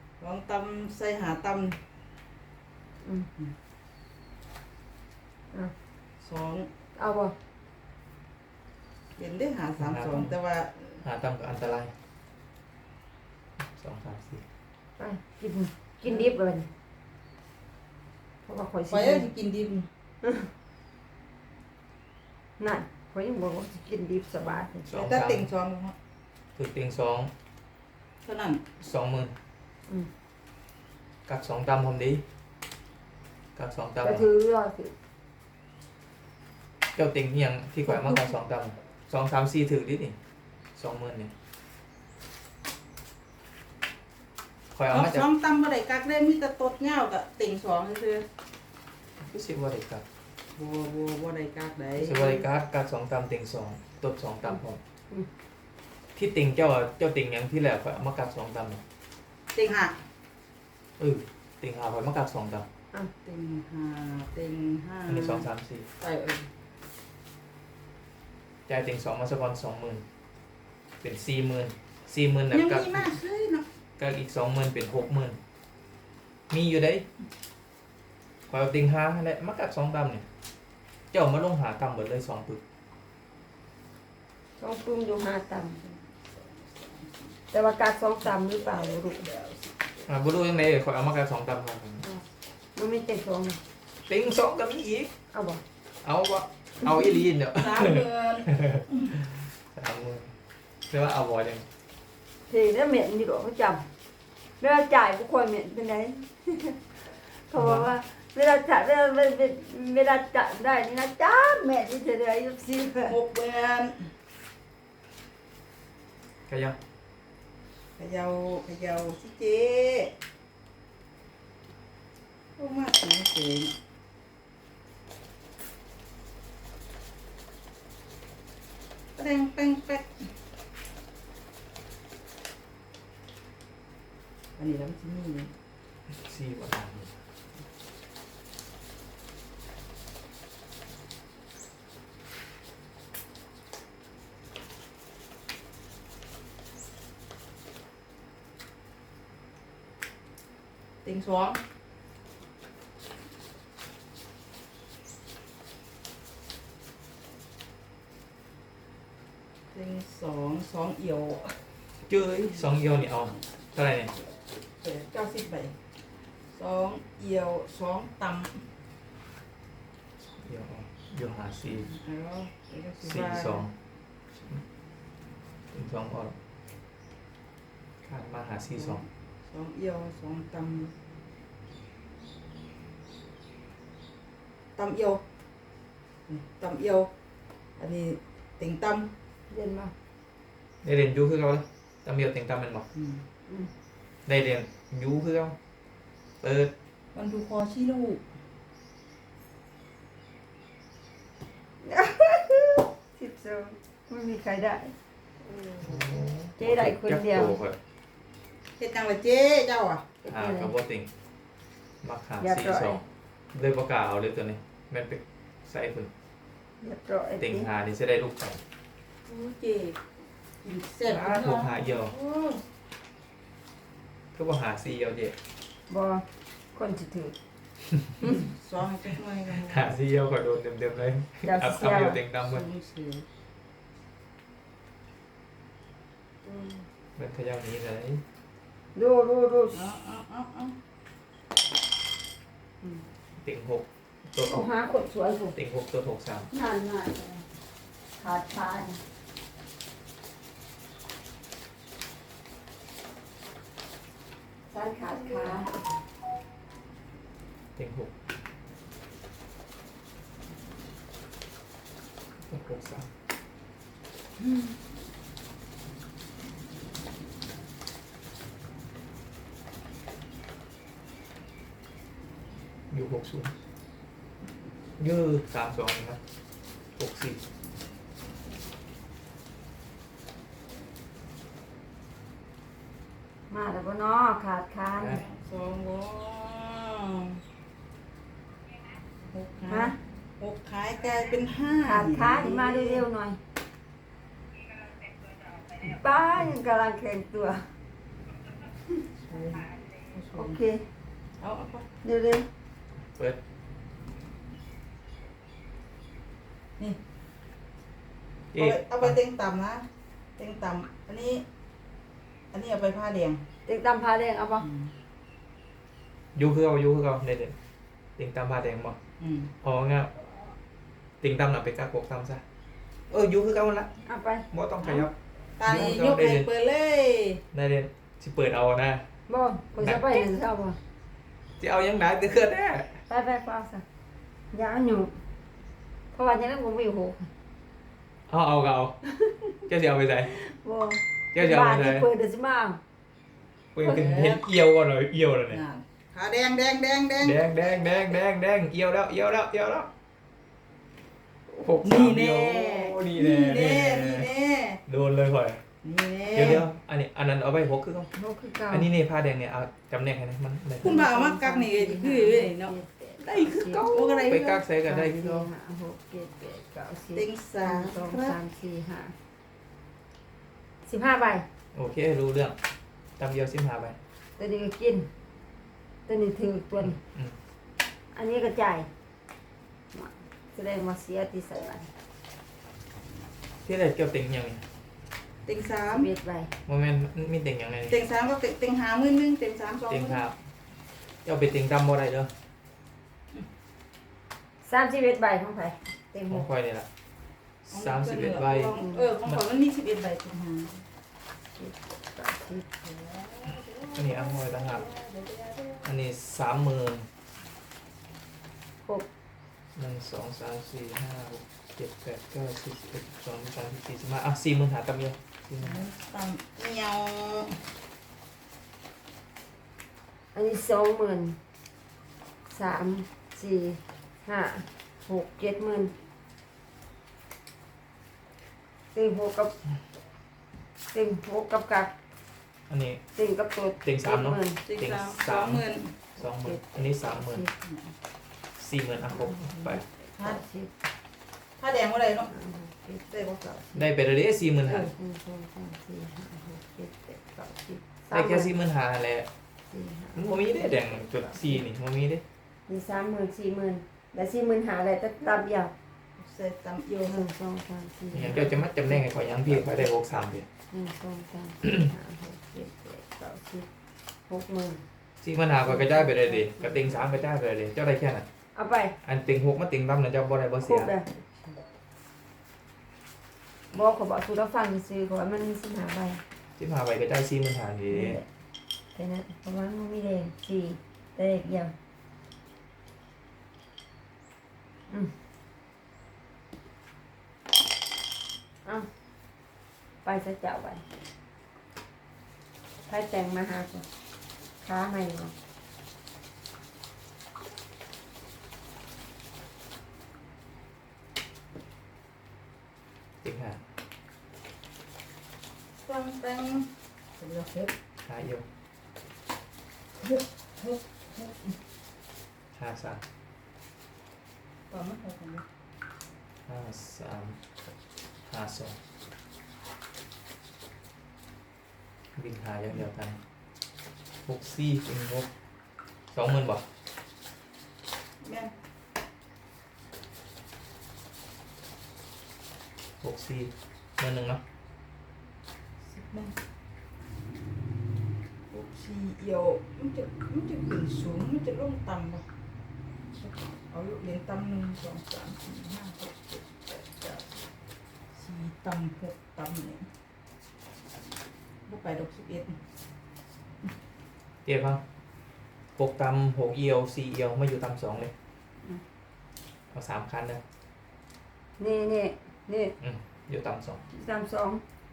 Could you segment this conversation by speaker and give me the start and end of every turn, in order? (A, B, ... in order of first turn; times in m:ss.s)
0:00.2-0:01.8 A
0:03.0-0:03.3 B
0:06.2-0:06.7 A
0:07.0-0:07.4 B
0:09.2-0:11.0 A
0:09.8-0:10.3 C
0:11.0-0:11.9 C
0:13.6-0:14.4 C
0:15.0-0:16.7 B
0:18.4-0:19.3 B
0:18.9-0:19.9 A
0:20.2-0:20.5 B
0:22.6-0:24.8 B
0:24.4-0:26.0 A
0:24.9-0:25.5 C
0:26.6-0:27.3 C
0:28.2-0:28.6 A
0:28.8-0:29.3 C
0:31.3-0:32.2 C
0:33.6-0:34.3 C
0:34.0-0:34.9 B
0:37.0-0:40.2 C
0:40.8-0:41.3 C
0:44.8-0:45.3 C
0:44.9-0:48.2 A
0:49.2-0:50.0 C
0:50.6-0:52.4 A
0:52.0-0:54.8 C
0:56.2-0:58.8 C
0:59.6-1:00.0 A
1:01.0-1:02.7 C
1:03.2-1:05.5 A
1:05.1-1:05.9 C
1:06.0-1:06.5 A
1:08.7-1:10.0 C
1:11.0-1:13.2 C
1:12.5-1:13.6 A
1:14.0-1:15.4 C
1:16.5-1:17.1 C
1:18.5-1:20.2 C
1:21.1-1:22.6 C
1:24.6-1:25.8 B
1:25.8-1:27.3 A
1:27.5-1:29.3 B
1:28.6-1:30.1 A
1:30.1-1:32.0 C
1:32.0-1:33.6 B
1:34.1-1:35.1 C
1:35.3-1:35.6 B
1:36.0-1:40.4 C
1:37.5-1:39.1 A
1:40.9-1:41.6 C
1:42.5-1:43.8 B
1:44.6-1:53.2 B
1:47.6-1:47.9 C
1:53.1-1:54.1 A
1:56.5-1:56.8 C
1:58.0-2:00.1 A
2:02.6-2:03.7 A
2:09.2-2:10.3 A
2:14.6-2:15.5 A
2:16.1-2:17.2 C
2:31.0-2:31.6 A
2:39.7-2:41.6 A
2:42.0-2:44.1 C
2:44.8-2:45.8 A
2:46.5-2:48.6 A
2:50.4-2:51.9 C
2:51.7-2:53.7 A
2:53.0-2:53.8 C
2:55.7-2:56.4 C
2:58.0-2:59.0 C
2:58.8-3:00.9 A
3:04.8-3:05.2 A
3:06.3-3:07.1 A
3:07.8-3:09.1 A
3:09.5-3:09.9 B
3:10.8-3:12.9 C
3:13.0-3:13.2 A
3:14.3-3:15.6 C
3:16.4-3:16.7 C
3:17.2-3:18.2 A
3:21.8-3:24.9 B
3:25.4-3:26.0 A
3:25.8-3:27.8 C
3:26.6-3:27.6 B
3:28.8-3:30.0 A
3:30.2-3:30.7 B
3:30.3-3:31.1 C
3:32.0-3:36.1 C
3:32.4-3:33.0 B
3:36.8-3:37.7 B
3:37.4-3:38.6 C
3:39.3-3:40.0 A
3:40.6-3:42.6 A
3:41.0-3:42.1 C
3:44.3-3:45.4 C
3:45.9-3:47.4 B
3:48.2-3:49.9 A
3:49.6-3:52.7 C
3:51.4-3:52.2 B
3:52.4-3:53.3 A
3:56.4-3:56.8 B
3:57.2-3:58.2 C
3:59.0-3:59.9 B
3:59.7-4:00.8 A
4:03.4-4:04.7 C
4:04.5-4:05.6 B
4:05.6-4:06.5 C
4:06.5-4:07.5 B
4:08.2-4:09.0 B
4:14.7-4:15.7 B
4:15.4-4:15.8 A
4:17.8-4:18.1 C
4:22.5-4:23.1 C
4:32.9-4:33.5 C
4:35.0-4:36.2 C
4:37.0-4:37.4 C
4:43.5-4:45.2 B
4:45.0-4:45.2 C
4:45.1-4:47.4 A
4:49.3-4:53.1 A
4:49.7-4:50.0 B
4:51.8-4:53.4 B
4:55.8-4:57.6 B
4:59.3-5:00.6 A
5:00.3-5:00.9 B
5:01.4-5:01.9 A
5:02.0-5:02.5 B
5:03.1-5:03.4 C
5:08.5-5:09.2 C
5:08.6-5:09.8 A
5:10.4-5:11.4 A
5:12.5-5:13.4 A
5:13.7-5:14.7 B
5:14.6-5:14.9 A
5:16.4-5:17.6 C
5:18.2-5:19.0 C
5:19.2-5:19.5 A
5:19.6-5:20.1 C
5:21.2-5:22.4 C
5:23.1-5:23.9 C
5:24.0-5:24.5 B
5:24.5-5:26.5 C
5:24.8-5:27.4 A
5:27.5-5:29.1 C
5:29.3-5:30.8 B
5:29.8-5:30.4 C
5:31.6-5:33.0 C
5:33.1-5:33.8 B
5:34.5-5:35.2 B
5:36.1-5:37.3 B
5:38.3-5:39.0 C
5:39.7-5:40.3 C
5:40.3-5:42.8 B
5:41.3-5:42.1 C
5:43.8-5:45.6 C
5:43.8-5:44.4 A
5:45.5-5:47.4 A
5:47.2-5:49.9 C
5:51.5-5:54.3 C
5:51.8-5:54.8 A
5:54.9-5:55.6 C
5:55.8-5:56.6 A
5:56.3-5:58.1 C
5:58.2-5:58.9 B
5:58.7-6:01.0 C
6:00.8-6:03.9 B
6:00.8-6:04.6 A
6:03.3-6:05.5 C
6:04.8-6:09.2 B
6:07.1-6:08.4 A
6:10.8-6:11.5 B
6:11.7-6:12.6 C
6:13.2-6:14.0 C
6:14.4-6:15.1 B
6:16.1-6:17.0 B
6:17.1-6:17.4 C
6:18.1-6:18.9 B
6:19.9-6:21.9 B
6:23.6-6:24.6 C
6:25.5-6:26.1 A
6:25.9-6:26.5 B
6:26.7-6:28.0 C
6:27.9-6:30.2 A
6:29.9-6:30.4 C
6:31.2-6:32.3 C
6:34.6-6:36.4 B
6:36.3-6:36.9 C
6:37.7-6:39.4 C
6:37.7-6:40.8 A
6:38.8-6:39.0 B
6:41.6-6:42.6 B
6:42.8-6:45.9 A
6:44.0-6:44.9 C
6:45.8-6:47.1 C
6:49.8-6:55.8 C
6:55.6-6:57.6 A
7:00.3-7:01.4 B
7:02.5-7:05.9 B
7:08.9-7:09.6 B
7:10.9-7:11.9 B
7:12.7-7:13.0 C
7:13.2-7:14.6 B
7:13.8-7:15.6 C
7:14.7-7:16.0 A
7:16.2-7:17.5 C
7:16.2-7:17.5 B
7:18.6-7:19.8 C
7:19.1-7:20.7 B
7:21.6-7:22.3 A
7:22.3-7:23.9 B
7:23.1-7:23.4 A
7:23.7-7:24.9 C
7:24.7-7:24.9 A
7:24.9-7:28.5 B
7:28.1-7:29.3 C
7:29.7-7:31.6 B
7:30.2-7:32.2 C
7:32.7-7:35.7 B
7:36.2-7:37.3 A
7:37.0-7:39.2 B
7:38.1-7:40.5 C
7:40.7-7:43.7 B
7:44.3-7:44.8 B
7:45.2-7:48.2 C
7:45.6-7:47.2 B
7:48.6-7:49.0 B
7:49.0-7:50.9 C
7:50.6-7:51.1 B
7:53.7-7:56.2 B
7:56.6-7:58.2 C
7:57.9-7:58.2 B
7:58.9-8:01.7 B
8:10.0-8:10.9 B
8:12.8-8:13.9 B
8:14.6-8:15.3 B
8:23.2-8:23.6 C
8:25.8-8:27.7 A
8:28.0-8:28.5 C
8:30.0-8:31.5 A
8:32.6-8:33.0 C
8:34.7-8:35.4 A
8:36.5-8:37.4 C
8:38.3-8:38.8 C
8:42.2-8:43.2 C
8:44.3-8:45.3 C
8:46.1-8:46.7 C
8:48.2-8:48.5 A
8:53.0-8:54.4 C
8:55.8-8:56.3 A
8:58.5-9:02.2 A
9:03.2-9:07.5 A
9:08.2-9:09.9 A
9:11.7-9:12.6 A
9:14.4-9:14.8 C
9:15.8-9:18.1 C
9:19.7-9:20.4 C
9:21.6-9:22.8 B
9:22.8-9:23.8 C
9:23.9-9:24.6 B